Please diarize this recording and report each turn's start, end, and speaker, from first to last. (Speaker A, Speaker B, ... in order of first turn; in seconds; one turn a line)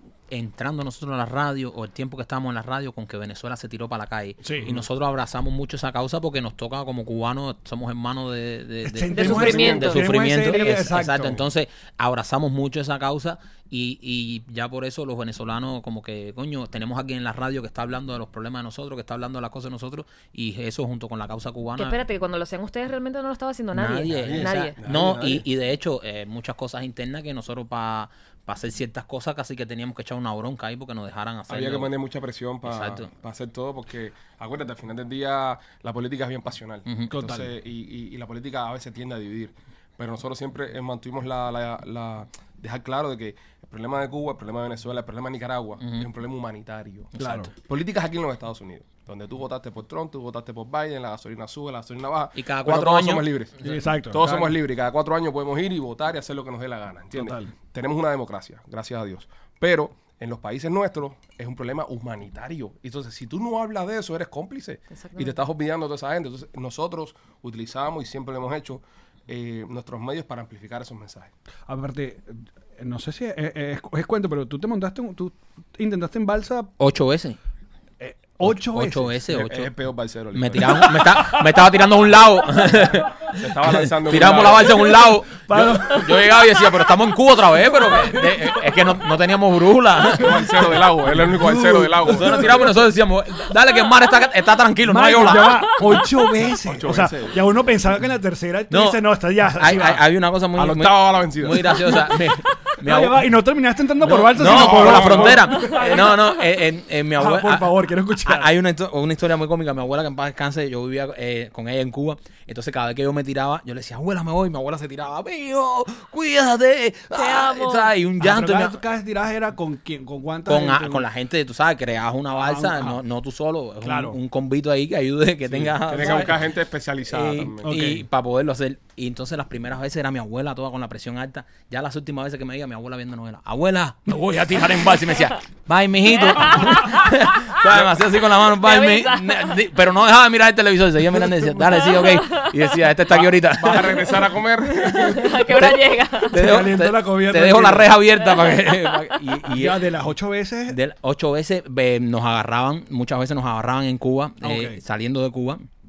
Speaker A: 0.3-22.0
Speaker B: 4.4-4.8
Speaker B: 8.8-11.4
Speaker C: 9.1-10.0
Speaker D: 9.3-10.0
Speaker C: 21.8-24.8
Speaker A: 23.7-31.9
Speaker D: 24.2-25.5
Speaker D: 31.5-53.6
Speaker A: 32.6-33.1
Speaker B: 37.1-37.5
Speaker A: 45.8-46.1
Speaker A: 47.1-47.5
Speaker B: 47.2-47.5
Speaker A: 52.4-53.7
Speaker B: 53.6-54.5
Speaker D: 54.1-71.3
Speaker B: 57.1-57.5
Speaker C: 64.9-65.4
Speaker B: 71.7-76.7
Speaker A: 76.8-77.4
Speaker B: 78.0-79.2
Speaker A: 78.4-79.7
Speaker D: 79.3-81.0
Speaker A: 80.3-90.6
Speaker B: 80.6-81.7
Speaker D: 83.3-85.0
Speaker B: 84.2-86.4
Speaker B: 87.8-88.9
Speaker D: 90.1-92.7
Speaker B: 91.0-92.8
Speaker A: 92.0-95.9
Speaker B: 94.8-100.0
Speaker D: 96.6-97.5
Speaker A: 98.7-99.0
Speaker A: 99.5-103.3
Speaker D: 100.5-101.8
Speaker B: 102.8-106.2
Speaker A: 104.0-118.8
Speaker D: 104.4-105.5
Speaker C: 105.6-106.1
Speaker B: 107.2-108.5
Speaker C: 117.2-117.9
Speaker B: 118.2-121.1
Speaker A: 120.5-126.4
Speaker B: 122.3-123.0
Speaker B: 123.8-124.2
Speaker B: 125.5-126.3
Speaker D: 125.8-127.7
Speaker A: 127.1-144.2
Speaker B: 127.6-128.1
Speaker C: 136.1-137.1
Speaker C: 138.6-139.6
Speaker C: 141.8-142.5
Speaker D: 143.1-145.5
Speaker C: 144.9-146.4
Speaker A: 145.5-149.9
Speaker B: 146.3-148.0
Speaker C: 148.2-149.1
Speaker B: 149.5-150.8
Speaker A: 150.7-155.6
Speaker B: 154.4-154.8